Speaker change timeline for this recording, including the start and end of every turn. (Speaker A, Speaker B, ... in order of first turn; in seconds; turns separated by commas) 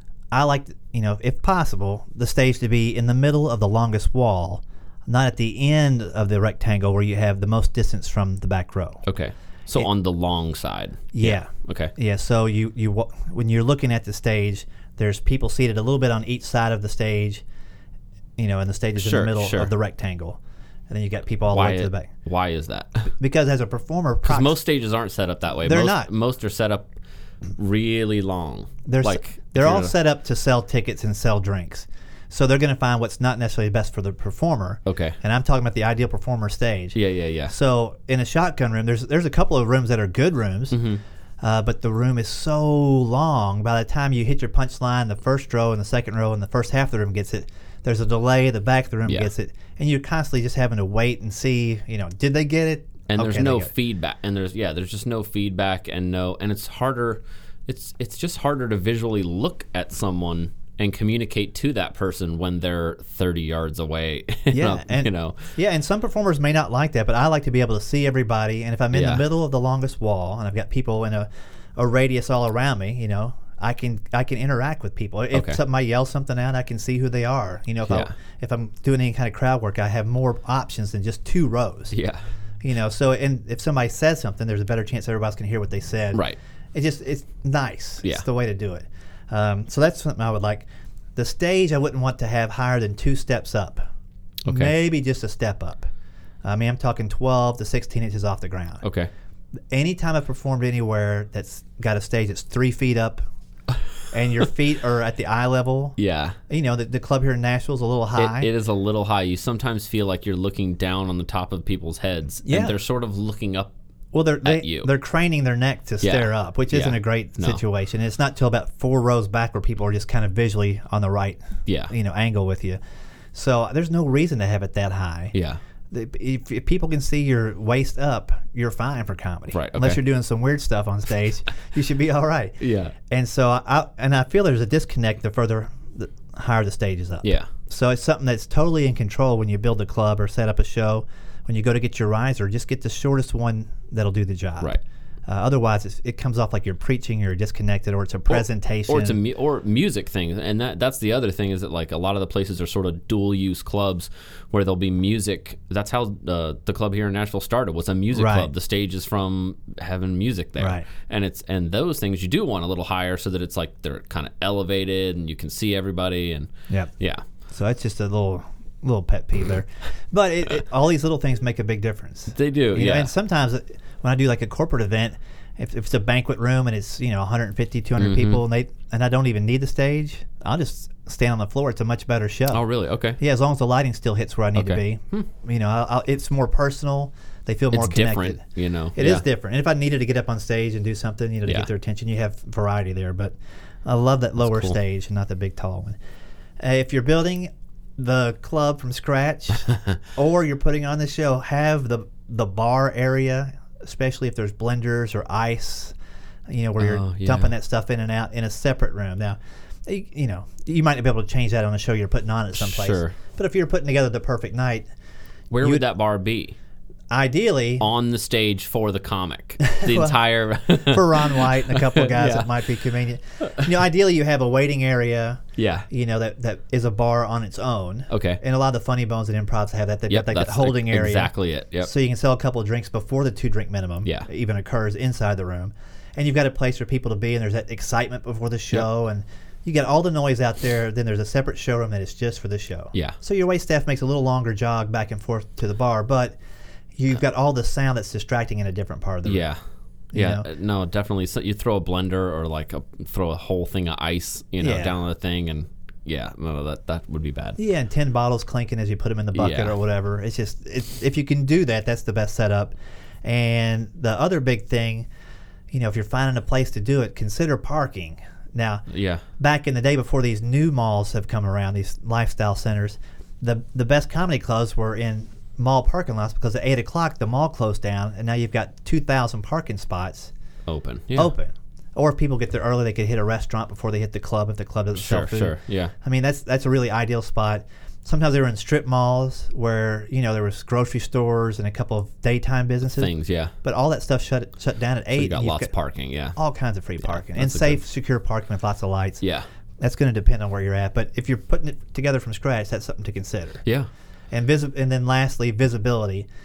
Speaker A: 0.3-9.0, Speaker B: 9.0-11.9, Speaker A: 11.1-17.4, Speaker A: 18.4-20.4, Speaker B: 19.0-19.7, Speaker A: 20.9-22.1, Speaker B: 21.5-23.1, Speaker A: 23.1-24.6, Speaker B: 24.2-26.9, Speaker A: 25.6-26.1, Speaker B: 27.6-29.9, Speaker A: 28.8-37.0, Speaker B: 34.9-35.2, Speaker B: 36.9-37.5, Speaker A: 37.5-40.8, Speaker B: 40.7-41.0, Speaker A: 41.4-53.7, Speaker B: 53.1-65.5, Speaker A: 64.5-81.9, Speaker B: 68.9-69.2, Speaker B: 75.3-75.6, Speaker B: 81.9-82.2, Speaker A: 82.6-86.2, Speaker B: 86.1-86.4, Speaker A: 86.7-93.8, Speaker B: 94.5-94.7, Speaker A: 94.5-95.9, Speaker A: 96.4-98.8, Speaker B: 98.8-99.1, Speaker A: 99.7-103.2, Speaker A: 104.1-106.0, Speaker B: 106.0-106.4, Speaker A: 106.5-108.5, Speaker B: 108.2-113.7, Speaker A: 112.5-112.8, Speaker A: 114.1-122.8, Speaker B: 114.4-114.9, Speaker B: 116.0-117.6, Speaker B: 121.7-121.9, Speaker A: 123.3-125.3, Speaker B: 125.3-125.6, Speaker A: 125.9-144.7, Speaker B: 129.5-130.0, Speaker B: 132.6-132.9, Speaker B: 137.2-137.5, Speaker A: 145.3-149.2, Speaker B: 148.3-167.2, Speaker A: 158.1-158.5, Speaker A: 160.6-160.8, Speaker A: 167.5-182.6, Speaker B: 172.3-173.1, Speaker B: 178.0-178.4, Speaker B: 182.5-183.2, Speaker A: 183.2-188.4, Speaker B: 184.5-185.2, Speaker B: 187.7-189.2, Speaker A: 188.9-196.0, Speaker B: 194.4-194.7, Speaker A: 196.6-205.9, Speaker B: 199.7-200.0, Speaker A: 206.5-214.9, Speaker B: 206.8-207.5, Speaker B: 212.6-213.2, Speaker B: 215.5-216.6, Speaker A: 217.1-217.8, Speaker B: 217.8-222.6, Speaker A: 219.7-220.1, Speaker A: 220.8-246.4, Speaker B: 225.6-225.9, Speaker B: 228.1-228.4, Speaker B: 230.1-231.9, Speaker A: 246.9-249.5, Speaker B: 249.2-249.6, Speaker A: 250.1-250.4, Speaker B: 250.1-257.6, Speaker A: 254.6-254.9, Speaker A: 257.6-265.1, Speaker B: 259.3-259.8, Speaker A: 265.7-268.8, Speaker B: 268.9-269.2, Speaker A: 269.4-280.3, Speaker B: 280.7-281.3, Speaker A: 281.1-293.1, Speaker B: 284.9-285.9, Speaker B: 292.9-293.5, Speaker A: 293.6-295.7, Speaker B: 295.2-296.4, Speaker A: 296.4-299.2, Speaker B: 297.0-297.8, Speaker A: 299.8-303.6, Speaker A: 304.3-306.3